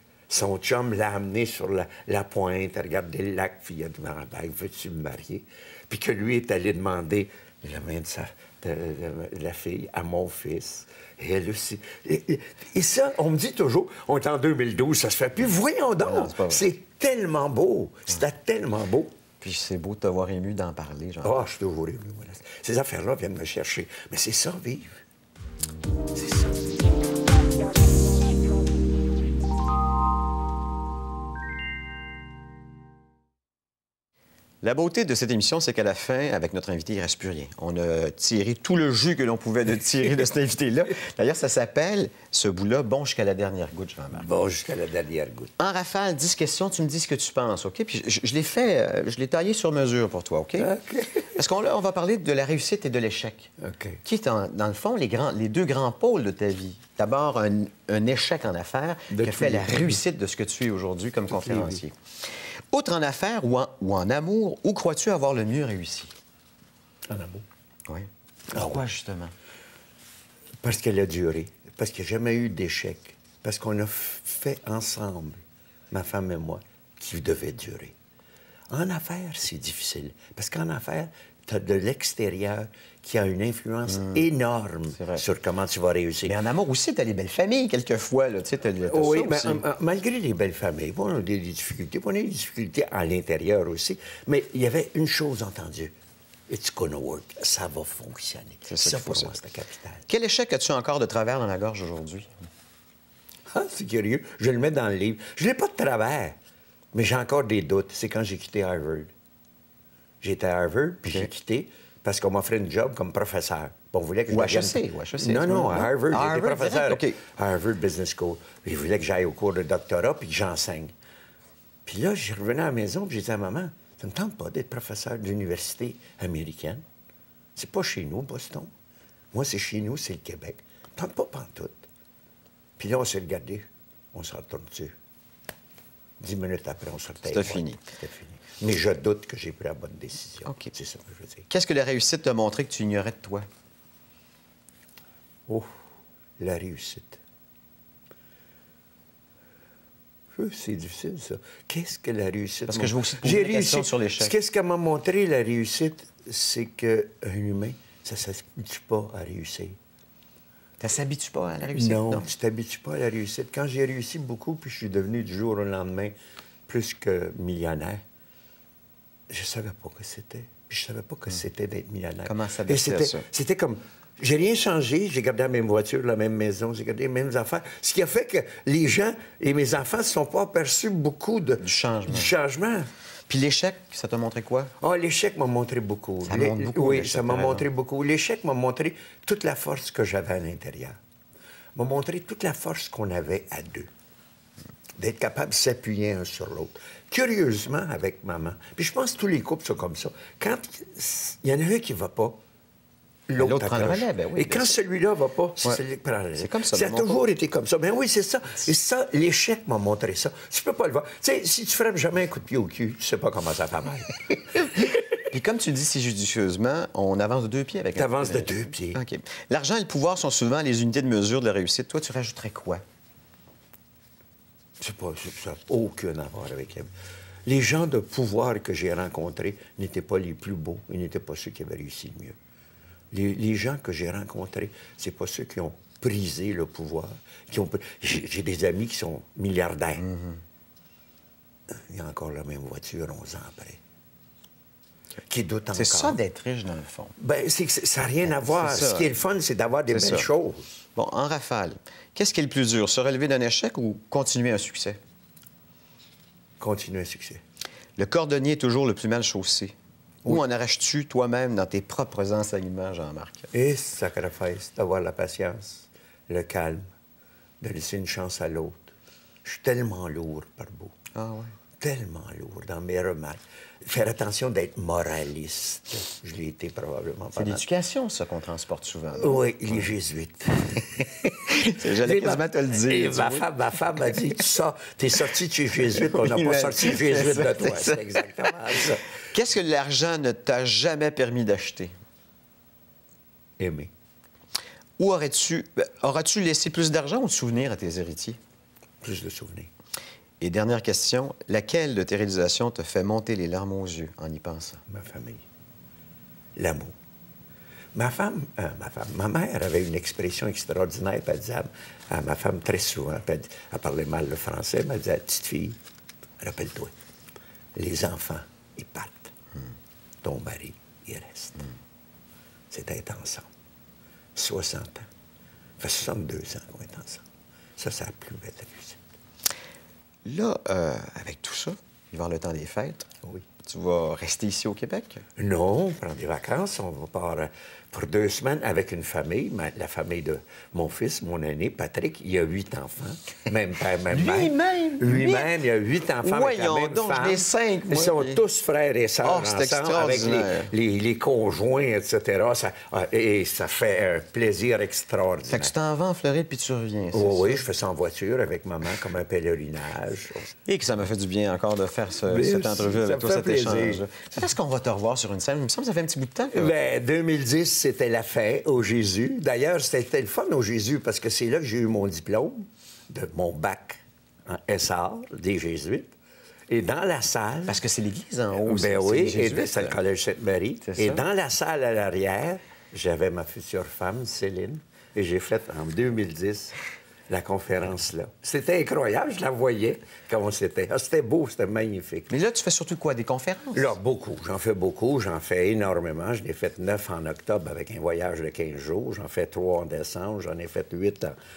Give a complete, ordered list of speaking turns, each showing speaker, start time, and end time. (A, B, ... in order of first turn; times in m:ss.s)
0:00.3-0:19.1 A
0:16.0-0:16.7 B
0:19.4-0:21.5 B
0:21.2-0:25.0 A
0:26.2-0:26.6 A
0:34.6-0:44.3 B
0:44.1-0:45.5 A
0:45.6-0:50.7 B
0:50.6-0:51.4 A
0:51.3-0:53.5 B
0:53.6-0:54.0 A
0:54.0-1:06.2 B
0:59.1-1:00.0 A
1:01.3-1:01.8 A
1:07.1-1:07.4 A
1:07.9-1:09.3 B
1:08.5-1:08.8 A
1:10.6-1:18.0 A
1:18.7-1:26.4 A
1:23.9-1:24.2 B
1:25.0-1:25.2 B
1:26.3-1:29.6 B
1:28.9-1:35.9 A
1:36.5-1:40.0 A
1:38.7-1:39.4 B
1:40.1-1:42.4 B
1:43.5-1:46.4 A
1:46.9-1:49.1 A
1:50.2-2:00.9 A
1:54.3-1:57.2 B
2:01.9-2:06.8 A
2:07.6-2:08.7 A
2:09.3-2:11.8 A
2:12.8-2:15.0 A
2:16.2-2:21.5 A
2:17.3-2:17.8 B
2:20.5-2:20.7 B
2:21.5-2:23.5 B
2:26.4-2:27.2 A
2:30.4-2:39.8 A
2:32.7-2:34.3 B
2:40.8-2:42.3 B
2:41.7-2:46.2 A
2:46.7-2:48.0 A
2:49.3-3:02.9 A
2:52.2-2:53.2 B
3:01.6-3:02.3 B
3:03.3-3:04.7 B
3:04.8-3:11.0 A
3:06.2-3:07.7 B
3:11.8-3:13.9 A
3:15.0-3:22.4 A
3:23.3-3:34.7 A
3:23.4-3:24.8 B
3:26.4-3:27.2 B
3:35.3-3:42.8 B
3:38.0-3:39.0 A
3:44.8-3:46.9 A
3:47.5-3:52.4 A
3:53.1-4:00.1 A
4:00.0-4:00.4 B
4:01.7-4:03.8 A
4:05.3-4:06.2 A
4:05.7-4:07.1 B
4:07.2-4:10.8 A
4:08.2-4:09.1 B
4:09.9-4:10.3 B
4:11.0-4:15.0 B
4:16.6-4:17.4 A
4:18.0-4:23.5 B
4:23.5-4:26.9 A
4:27.6-4:31.0 A
4:31.1-4:31.5 B
4:31.8-4:37.6 A
4:37.3-4:39.9 B
4:39.2-4:41.1 A
4:41.0-4:43.5 B
4:41.7-4:49.1 A
4:45.9-4:48.6 B
4:49.3-4:51.9 B
4:53.6-4:53.9 A
4:55.0-4:58.4 B
4:59.0-4:59.7 A
5:00.4-5:04.8 B
5:04.9-5:05.4 A
5:06.6-5:07.0 A
5:08.0-5:15.8 A
5:16.4-5:16.9 A
5:17.8-5:19.4 A
5:20.2-5:21.7 A
5:22.7-5:23.5 A
5:24.4-5:25.1 A
5:25.8-5:27.2 A
5:27.8-5:29.0 A
5:30.2-5:33.1 B
5:33.6-5:35.2 B
5:35.4-5:55.7 A
5:44.1-5:45.6 B
5:46.2-5:48.4 B
5:49.2-5:50.7 B
5:55.5-5:57.6 B
5:57.1-6:00.5 A
6:00.7-6:06.7 B
6:02.3-6:04.0 A
6:06.5-6:16.1 A
6:16.7-6:17.8 A
6:17.7-6:20.0 B
6:18.6-6:26.8 A
6:20.8-6:21.2 B
6:27.3-6:32.4 A
6:32.3-6:34.0 B
6:33.7-6:41.4 A